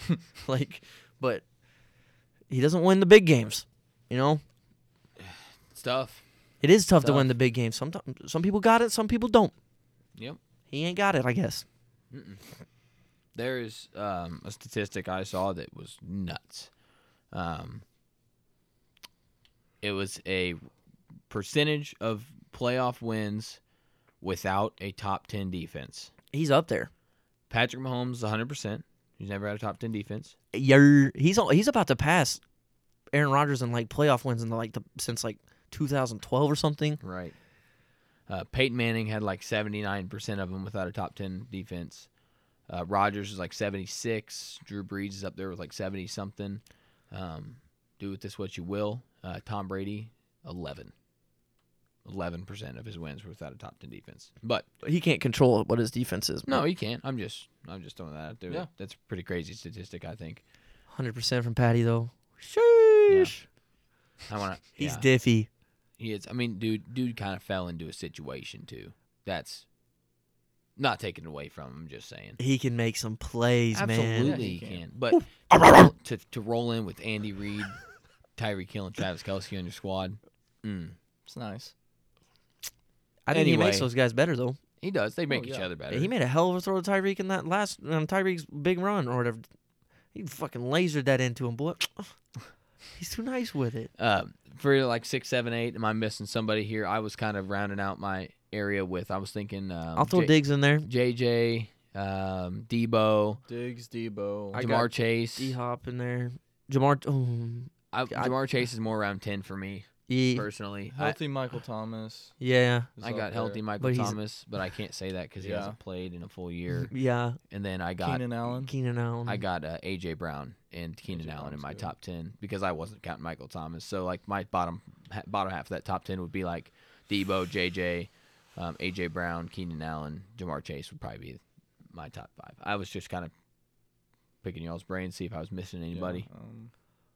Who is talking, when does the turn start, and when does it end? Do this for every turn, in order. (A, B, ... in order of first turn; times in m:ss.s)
0:00.3-0:01.4 A
0:02.5-0:04.4 A
0:05.2-0:06.2 B
0:06.6-0:09.5 A
0:10.7-0:11.6 A
0:12.1-0:12.4 B
0:13.3-0:16.7 B
0:17.3-0:17.8 B
0:19.8-0:20.6 B
0:21.3-0:23.6 B
0:24.2-0:26.1 B
0:26.3-0:26.9 A
0:27.5-0:30.3 B
0:30.5-0:32.4 A
0:33.1-0:37.0 A
0:37.0-0:37.3 B
0:38.3-0:42.1 B
0:42.7-0:50.9 B
0:52.0-0:54.7 B
0:54.8-0:56.6 A
0:56.5-1:00.4 B
1:00.9-1:03.4 A
1:03.1-1:03.3 B
1:04.2-1:05.0 B
1:04.8-1:05.5 A
1:06.0-1:09.6 B
1:10.8-1:12.4 B
1:12.4-1:14.5 A
1:13.7-1:17.8 B
1:14.2-1:14.8 C
1:15.5-1:15.9 A
1:18.4-1:21.0 B
1:21.3-1:21.7 C
1:23.3-1:24.6 A
1:23.3-1:23.9 B
1:24.8-1:26.1 B
1:25.3-1:25.7 C
1:25.9-1:29.4 A
1:30.1-1:32.1 A
1:33.0-1:33.9 A
1:34.0-1:43.4 B
1:40.0-1:40.9 A
1:43.4-1:44.6 C
1:44.5-1:45.6 B
1:44.5-1:48.3 A
1:47.9-1:51.2 B
1:50.1-1:50.5 A
1:50.9-1:52.4 C
1:52.4-1:52.9 A
1:53.0-1:53.6 C
1:53.0-1:56.9 B
1:53.8-1:54.2 A
1:55.4-1:55.8 C
1:56.9-1:57.4 A
1:57.5-1:58.2 B
1:58.0-1:58.7 C
1:58.6-1:59.4 A
1:59.2-2:13.3 B
2:01.0-2:01.9 C
2:14.4-2:16.3 B
2:15.9-2:16.7 C